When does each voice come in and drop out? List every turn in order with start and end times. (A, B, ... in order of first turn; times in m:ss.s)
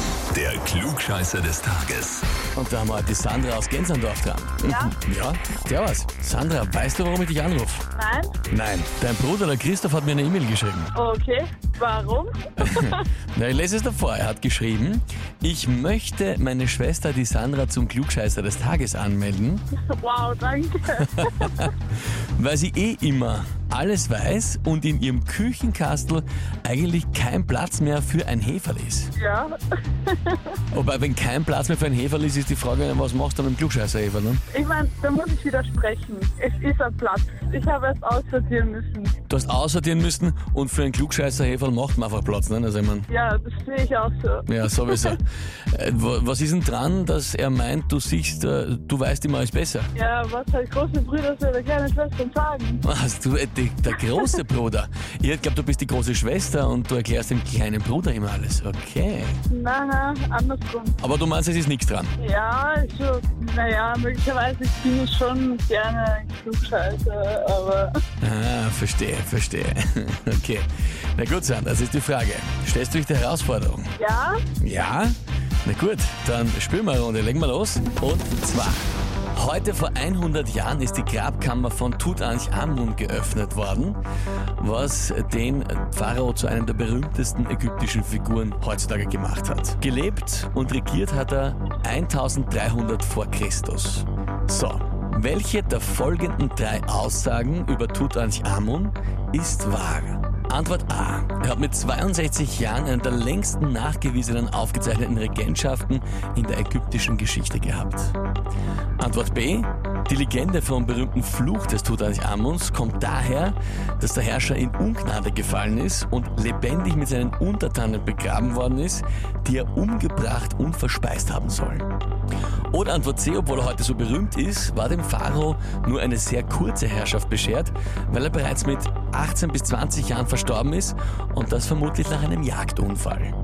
0:00.2-0:02.3 A
0:02.5-0:07.8 B
0:04.6-0:05.0 C
0:07.9-0:08.4 C
0:08.5-0:10.9 B
0:10.9-0:13.1 C
0:12.6-0:19.6 B
0:19.9-0:21.7 C
0:21.1-0:21.8 B
0:22.4-0:29.1 B
0:29.1-0:30.6 C
0:30.7-0:34.4 B
0:34.5-0:39.1 C
0:39.3-0:43.1 B
0:43.1-0:45.2 C
0:44.5-0:49.9 B
0:49.9-0:52.8 C
0:52.8-0:59.4 B
0:59.5-1:01.0 C
1:01.0-1:02.1 B
1:02.2-1:07.9 C
1:08.2-1:13.9 B
1:14.0-1:14.4 C
1:14.6-1:24.0 B
1:24.6-1:48.2 B
1:49.0-2:01.8 B
2:02.7-2:13.3 B